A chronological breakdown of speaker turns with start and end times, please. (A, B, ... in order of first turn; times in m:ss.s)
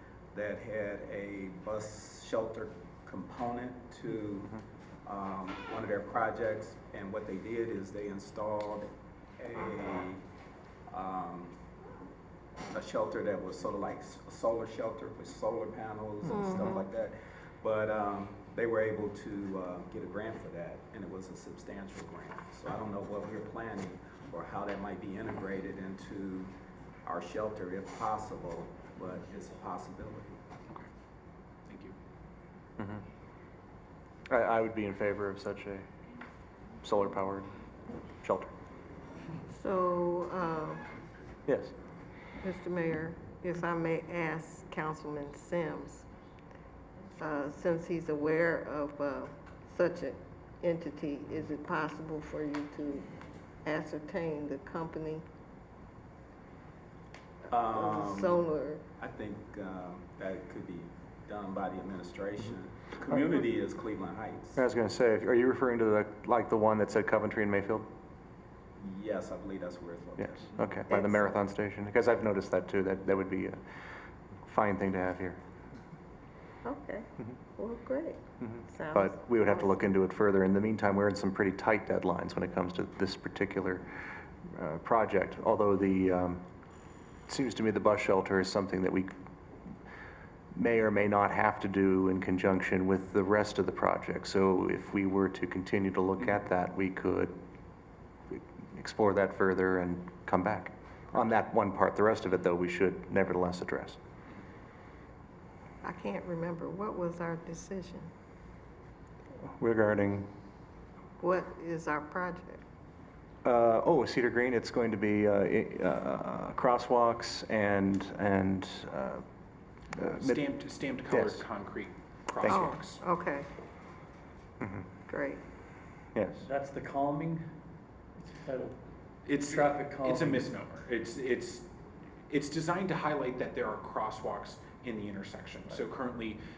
0:00.3-0:10.2 A
0:10.9-0:11.5 A
0:12.7-0:26.5 A
0:16.3-0:16.8 B
0:27.0-0:30.4 A
0:31.7-0:32.0 C
0:32.8-0:33.0 D
0:34.3-0:35.9 D
0:36.8-0:37.5 D
0:38.2-0:38.5 D
0:39.5-0:40.8 B
0:41.5-0:41.7 D
0:42.4-0:46.1 B
0:47.2-0:53.1 B
0:53.6-0:55.2 B
0:57.5-0:58.4 A
0:57.6-0:58.8 B
0:59.0-1:04.6 A
1:04.6-1:07.9 D
1:08.8-1:10.7 A
1:10.2-1:13.6 D
1:10.9-1:11.4 B
1:14.5-1:15.4 D
1:16.6-1:19.8 B
1:18.4-1:23.9 D
1:24.5-1:26.4 D
1:27.3-1:29.1 D
1:30.5-1:37.4 D
1:38.3-1:44.0 D
1:45.8-1:48.1 B
1:49.6-1:50.3 D
1:51.2-1:52.6 B
1:53.4-1:59.2 D
2:00.0-2:00.4 D
2:00.2-2:03.0 C
2:01.1-2:01.4 D
2:02.4-2:02.7 D
2:02.5-2:03.5 B
2:04.6-2:04.9 D
2:05.1-2:05.4 B
2:06.2-2:06.5 D
2:06.4-2:07.6 E
2:08.2-2:08.8 E
2:09.3-2:11.7 C
2:09.4-2:10.5 E
2:12.3-2:16.4 C